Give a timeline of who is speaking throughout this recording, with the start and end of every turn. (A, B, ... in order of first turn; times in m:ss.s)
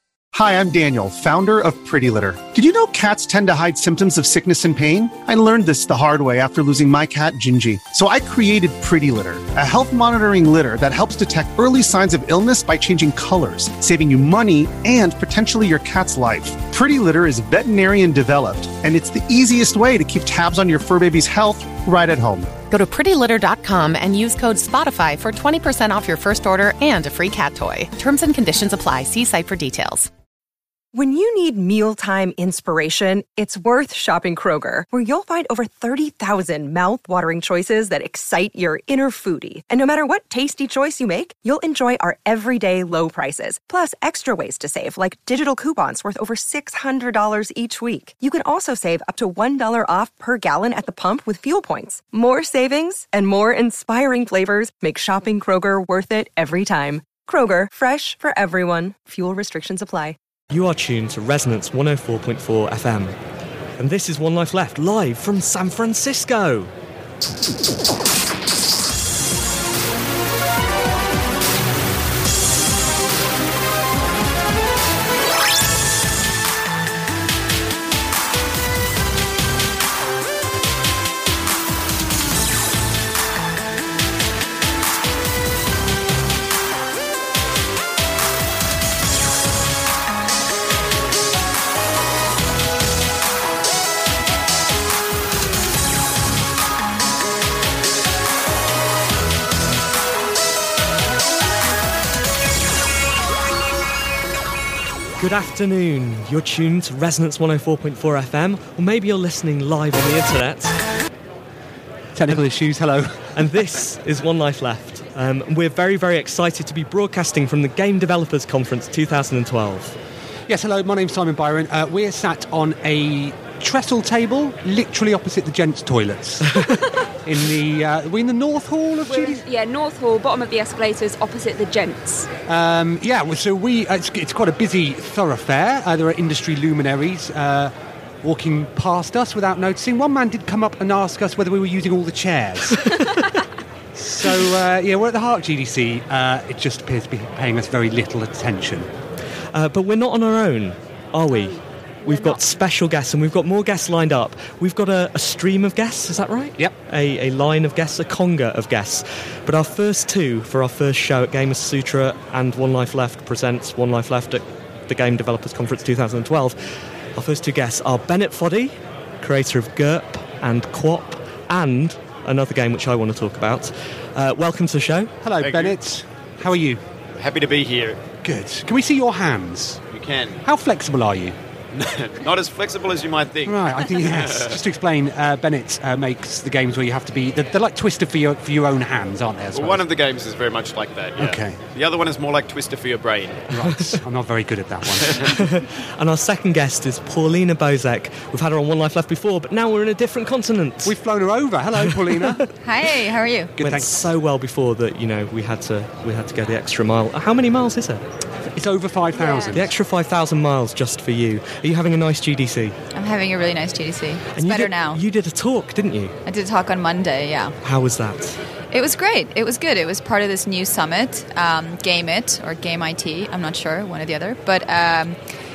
0:00.3-0:22.6 A
0:22.7-0:30.1 B
0:30.9-1:00.2 C
1:00.5-1:03.2 D
1:03.8-1:06.7 D
1:45.2-1:50.8 D
1:52.1-1:53.5 E
1:53.3-2:00.0 D
2:00.5-2:06.7 E
2:07.2-2:09.4 E
2:09.1-2:12.3 F
2:12.4-2:22.9 E
2:22.8-2:23.3 D
2:23.9-2:28.9 E
2:29.5-2:46.6 D
2:31.3-2:32.4 F
2:47.2-2:55.1 D
2:55.2-2:56.8 E
2:55.4-2:55.8 G
2:57.2-2:58.0 G
2:58.2-2:59.8 E
2:59.9-3:00.4 G
3:00.4-3:01.4 E
3:01.7-3:04.6 G
3:03.4-3:09.8 E
3:09.5-3:13.5 G
3:11.2-3:11.6 E
3:13.5-3:15.4 E
3:13.7-3:14.0 D
3:15.2-3:20.9 D
3:20.8-3:22.4 E
3:21.9-3:22.4 D
3:22.6-3:23.5 H
3:23.6-3:24.1 E
3:23.6-3:28.0 D
3:28.5-3:29.7 E
3:29.1-3:29.6 F
3:29.5-3:32.7 D
3:32.9-3:35.0 H
3:34.4-3:36.2 D
3:36.2-3:37.6 H
3:37.6-3:38.4 D
3:38.7-3:45.2 H